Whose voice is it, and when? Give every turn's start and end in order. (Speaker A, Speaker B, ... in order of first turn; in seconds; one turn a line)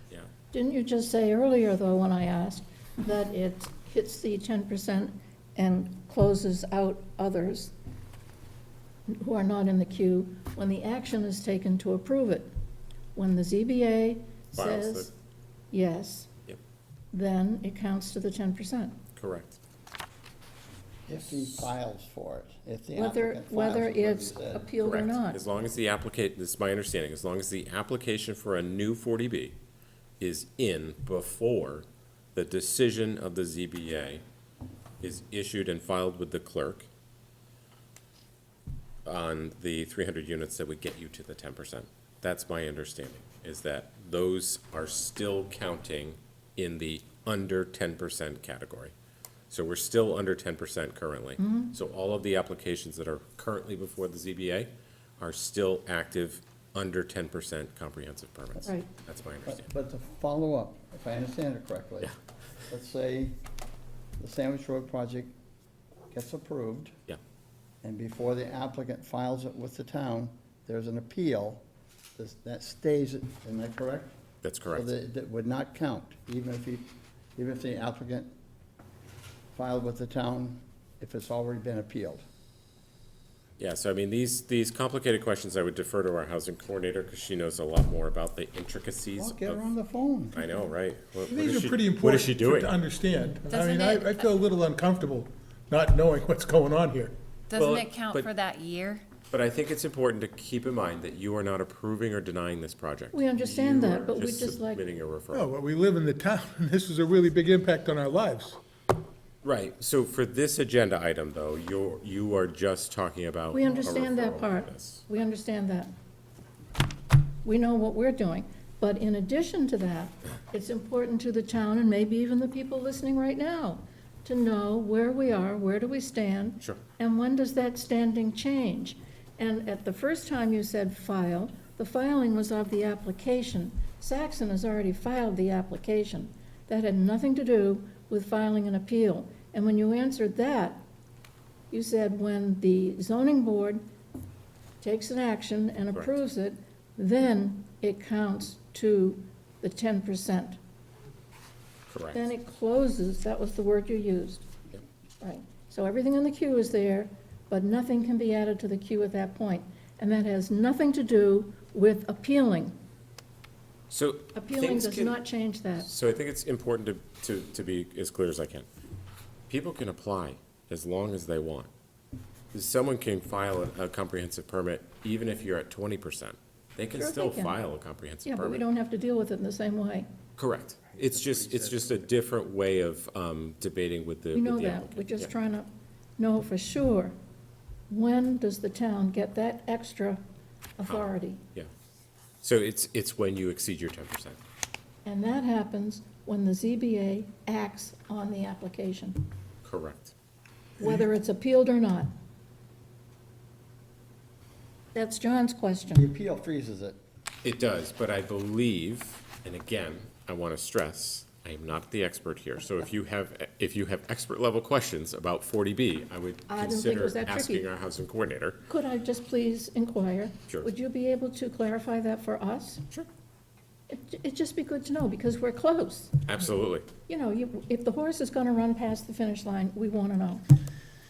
Speaker A: 0.5-7.7
Speaker A: 9.1-12.5
Speaker A: 13.2-15.1
Speaker B: 14.5-15.1
Speaker A: 15.7-16.3
Speaker A: 17.1-19.0
Speaker B: 19.2-19.6
Speaker C: 21.1-24.7
Speaker A: 23.0-25.4
Speaker B: 24.8-29.6
Speaker B: 30.2-34.2
Speaker B: 35.0-36.9
Speaker B: 39.0-48.9
Speaker B: 49.5-59.7
Speaker A: 51.4-51.7
Speaker C: 59.5-62.1
Speaker C: 62.7-63.4
Speaker C: 64.2-65.3
Speaker C: 66.1-66.9
Speaker C: 67.8-71.6
Speaker C: 72.2-74.2
Speaker B: 74.4-74.9
Speaker C: 74.7-78.3
Speaker C: 79.5-82.2
Speaker B: 83.6-89.7
Speaker C: 89.2-90.4
Speaker B: 90.3-92.8
Speaker D: 91.3-97.1
Speaker E: 93.5-94.2
Speaker E: 97.5-99.1
Speaker B: 97.5-98.3
Speaker B: 99.3-105.5
Speaker A: 103.1-104.8
Speaker D: 105.3-108.6
Speaker B: 109.4-115.0
Speaker A: 113.5-115.9
Speaker A: 117.4-140.8
Speaker A: 141.7-143.8
Speaker A: 144.8-150.6
Speaker B: 151.9-152.2
Speaker A: 152.1-154.5
Speaker A: 155.2-162.8
Speaker B: 163.9-165.2
Speaker A: 164.3-165.9
Speaker B: 165.8-168.7
Speaker B: 169.5-171.7
Speaker B: 172.5-178.6
Speaker A: 176.9-177.6
Speaker A: 178.3-180.1
Speaker B: 180.4-185.3
Speaker A: 184.3-187.1
Speaker A: 187.9-190.2
Speaker A: 190.8-191.4
Speaker B: 190.8-191.7
Speaker B: 192.4-194.4
Speaker A: 195.1-199.3
Speaker B: 199.6-200.1
Speaker D: 200.8-201.1
Speaker A: 200.8-202.1
Speaker A: 204.9-206.1
Speaker C: 205.9-207.0
Speaker B: 207.4-218.6
Speaker A: 216.5-217.7
Speaker A: 218.7-222.8
Speaker A: 223.9-226.2
Speaker B: 226.3-226.9
Speaker A: 227.1-230.4